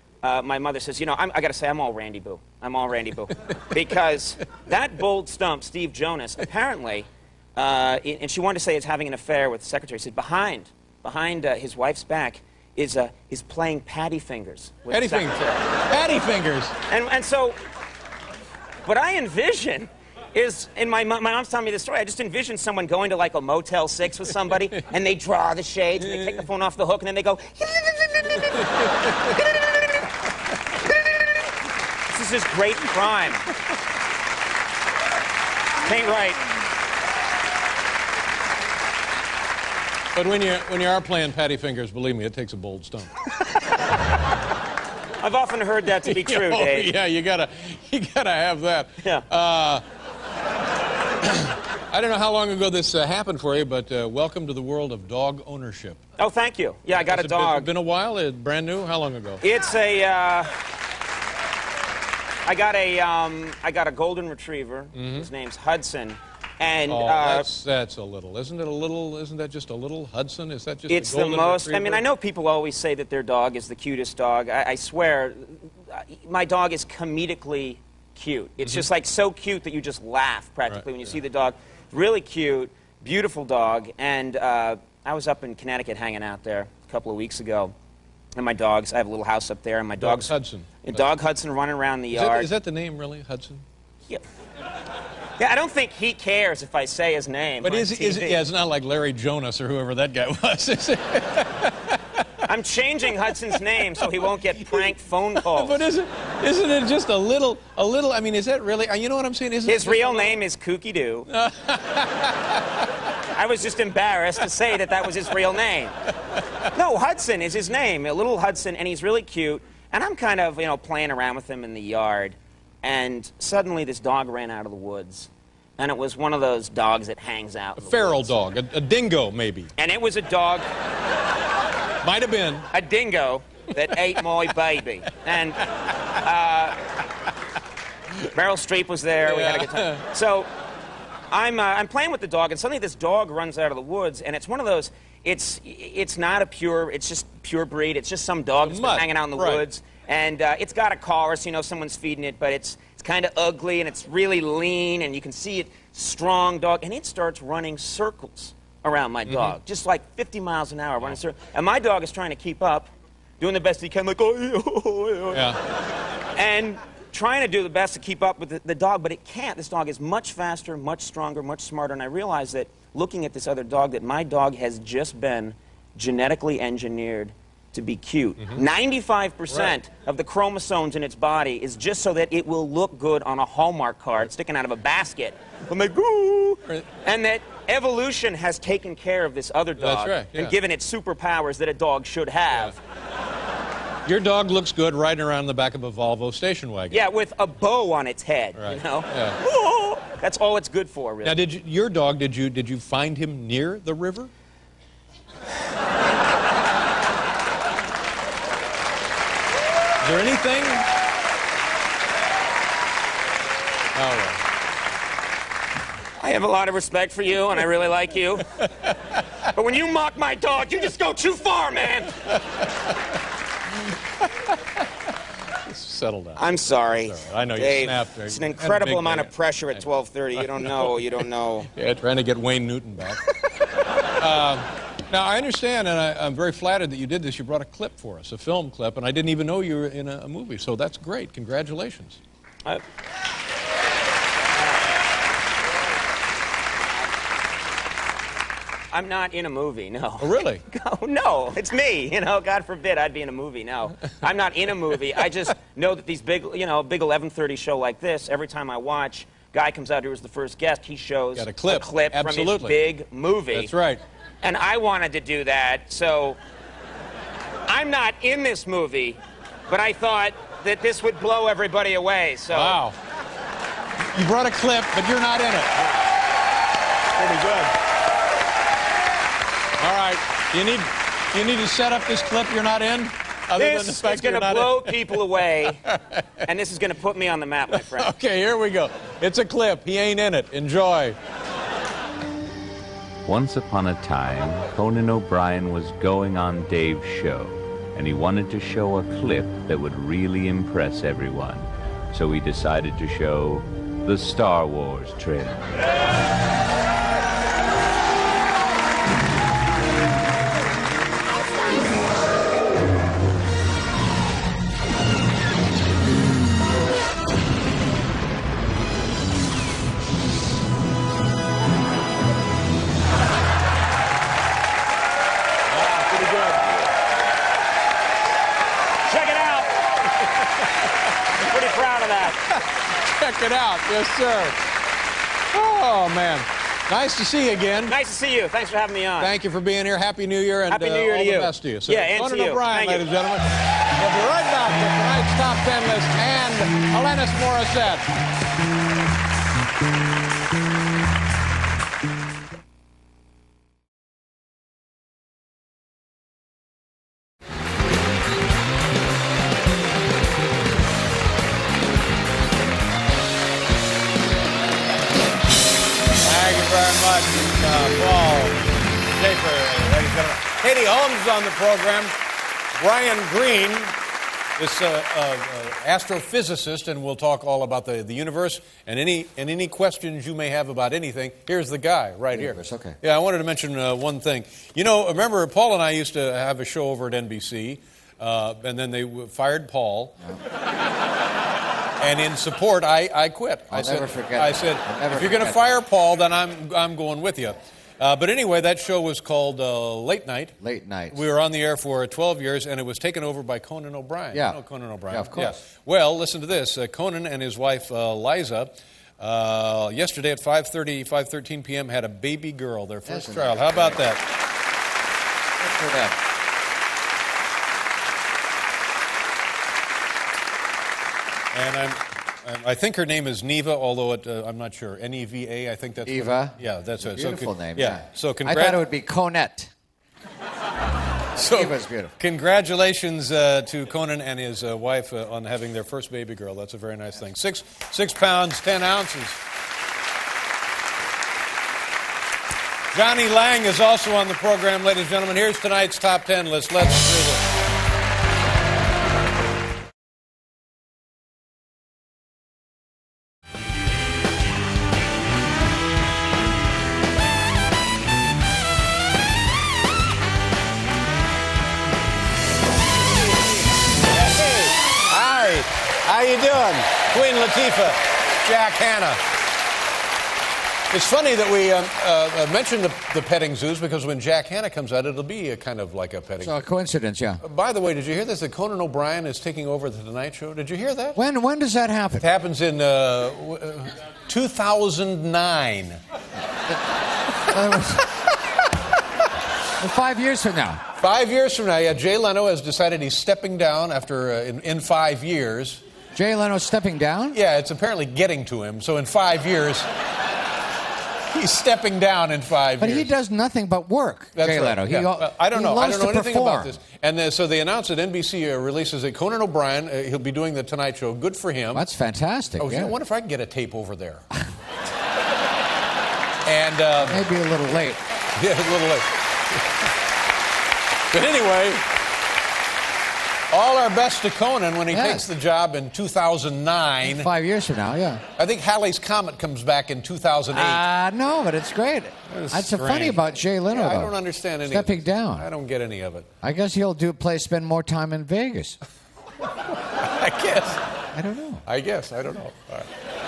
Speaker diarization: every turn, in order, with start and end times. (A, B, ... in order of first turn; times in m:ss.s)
0:00.2-0:15.3 A
0:14.9-0:16.7 B
0:16.9-0:17.6 A
0:18.9-0:28.7 A
0:26.0-0:26.4 B
0:28.7-0:29.3 B
0:32.1-0:33.4 A
0:35.8-0:36.4 A
0:40.1-0:43.2 B
0:45.2-0:46.9 A
0:46.0-0:49.8 B
0:51.2-0:56.0 B
0:56.2-0:57.7 A
0:57.0-0:59.4 B
0:59.4-1:00.5 A
1:02.5-1:07.5 A
1:05.0-1:05.3 B
1:06.9-1:12.0 B
1:10.9-1:27.7 A
1:28.4-1:32.5 A
1:30.0-1:31.0 B
1:32.1-1:33.6 B
1:35.4-1:38.4 A
1:37.6-1:42.2 B
1:42.5-1:45.8 A
1:44.0-1:44.9 B
1:45.4-1:50.4 B
1:49.7-1:51.3 A
1:51.3-1:52.6 B
1:53.4-1:56.0 A
1:56.7-2:08.4 A
2:07.8-2:09.7 B
2:09.8-2:10.7 A
2:12.0-2:12.7 B
2:12.7-2:15.6 A
2:16.2-2:16.8 A
2:18.3-2:20.5 A
2:19.3-2:20.0 B
2:21.3-2:45.5 A
2:28.7-2:29.6 B
2:39.3-2:39.6 B
2:46.4-3:12.8 A
3:09.8-3:10.5 B
3:14.1-3:17.0 B
3:16.9-3:21.4 A
3:18.6-3:19.4 B
3:21.2-3:24.3 B
3:30.0-3:30.9 B
3:34.0-3:34.4 B
3:36.2-3:38.5 A
3:39.5-3:42.1 A
3:42.2-3:42.6 B
3:44.2-3:44.6 B
3:45.7-3:49.8 B
3:46.4-3:51.7 A
3:50.4-3:51.2 B
3:51.7-3:53.3 B
3:54.2-4:02.2 B
4:08.9-4:23.7 A
4:10.2-4:10.6 B
4:21.4-4:22.8 B
4:23.5-4:24.0 B
4:24.4-4:26.4 A
4:27.7-4:32.8 A
4:32.5-4:33.0 B
4:34.1-4:36.0 B
4:37.2-4:37.7 B
4:39.8-4:45.2 B
4:43.6-4:45.8 A
4:45.8-4:46.3 B
4:46.5-4:48.1 A
4:47.9-4:51.2 B
4:53.2-5:05.9 C
5:25.7-5:26.9 B
5:29.1-5:29.8 A
5:30.4-5:30.9 B
5:31.4-5:32.4 A
5:32.5-5:34.6 B
5:35.5-5:38.0 B
5:37.9-5:39.3 A
5:39.2-5:48.1 B
5:40.7-5:43.0 A
6:06.2-6:08.6 B
6:09.2-6:12.1 B
6:12.8-6:14.0 B
6:14.6-6:30.2 B
6:22.3-6:23.0 D
6:32.0-6:40.6 B
6:33.7-6:35.6 D
6:40.6-6:41.2 D
6:41.1-6:54.2 B
6:44.3-6:44.6 D
6:45.1-6:45.6 D
6:53.1-6:54.0 D
6:55.6-6:56.2 D
7:01.5-7:08.8 B
7:06.0-7:09.7 D
7:11.4-7:19.4 B
7:11.4-7:12.2 D
7:22.9-7:27.4 B
7:44.1-7:49.2 B
7:50.9-7:56.6 B
7:56.4-7:57.4 D
7:57.4-8:01.2 B
8:01.2-8:02.3 D
8:02.2-8:06.0 B
8:07.5-8:08.1 D
8:09.8-8:10.8 D
8:11.0-8:15.8 B
8:16.2-8:17.4 D
8:17.3-8:19.9 B
8:21.3-8:23.1 B
8:22.8-8:26.8 D
8:24.3-8:31.9 B
8:31.7-8:32.9 D
8:32.6-8:34.2 B
8:36.5-8:37.3 B
8:37.0-8:38.0 D
8:38.3-8:39.6 B
8:41.1-8:41.8 B
8:43.5-8:47.3 B
8:44.9-8:45.3 D
8:47.0-8:48.2 D
8:48.4-8:50.9 B
8:50.5-8:54.1 D
8:52.3-8:56.3 B
8:54.6-8:55.5 D
8:56.4-8:58.8 D
8:59.9-9:00.8 B
9:01.1-9:01.6 D
9:01.7-9:02.9 B